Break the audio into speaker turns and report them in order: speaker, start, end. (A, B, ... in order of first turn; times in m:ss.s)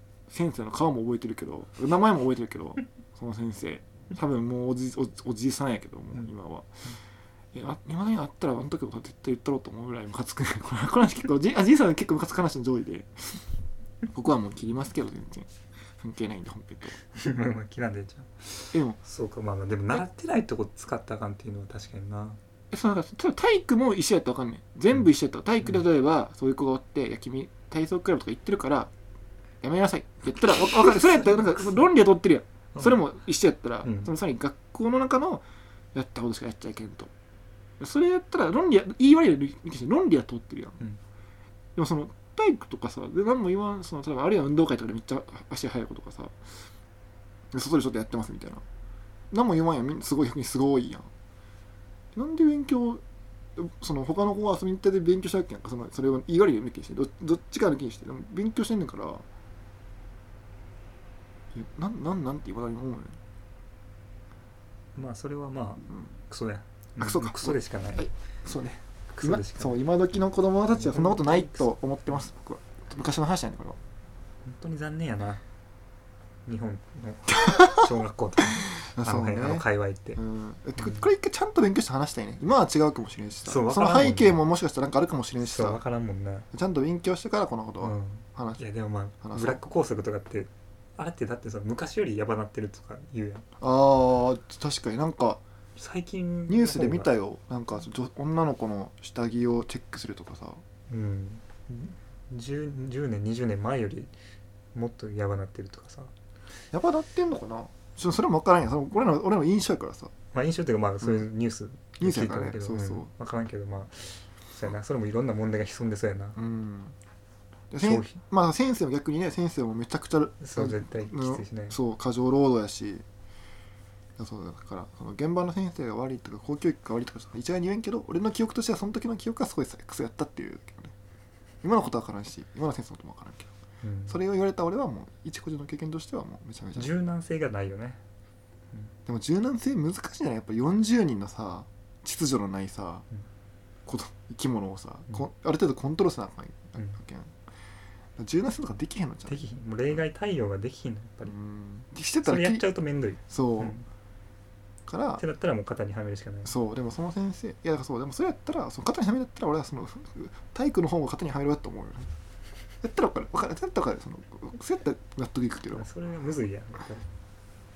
0:00.3-0:06.8 A
0:07.5-0:13.4 A
0:14.1-0:17.0 A
0:17.1-0:22.4 B
0:18.7-0:19.0 A
0:22.7-0:28.9 A
0:29.6-0:37.1 A
0:33.8-0:34.1 B
0:37.8-0:40.8 A
0:41.8-0:46.5 A
0:47.5-0:48.6 A
0:49.3-0:51.1 A
0:52.1-0:53.0 A
0:53.6-0:59.2 A
1:01.5-1:03.2 A
1:05.0-1:08.1 B
1:07.0-1:13.8 A
1:09.2-1:09.8 B
1:10.7-1:11.7 B
1:14.4-1:15.4 B
1:16.5-1:20.2 B
1:17.4-1:17.8 A
1:18.8-1:25.8 A
1:20.8-1:21.1 B
1:23.5-1:24.4 B
1:25.4-1:26.5 B
1:26.5-1:28.6 A
1:27.8-1:33.5 B
1:29.2-1:29.6 A
1:33.6-1:35.4 A
1:35.8-1:37.1 B
1:36.5-1:40.6 A
1:40.9-1:44.1 B
1:44.7-1:46.1 B
1:46.7-1:50.1 A
1:50.3-1:56.4 B
1:52.0-1:53.1 A
1:56.4-1:57.0 A
1:57.7-2:03.0 A
1:57.8-1:58.2 B
2:00.4-2:01.8 B
2:04.2-2:10.9 A
2:11.6-2:13.5 A
2:13.8-2:14.2 B
2:14.1-2:16.9 A
2:16.8-2:18.0 B
2:19.1-2:23.0 A
2:23.9-2:27.4 A
2:28.2-2:29.4 A
2:29.3-2:31.3 B
2:31.3-2:32.6 A
2:32.2-2:33.8 B
2:33.3-2:33.8 A
2:34.9-2:35.2 A
2:35.2-2:36.5 B
2:36.4-2:42.1 A
2:42.8-2:45.8 A
2:45.7-2:47.1 B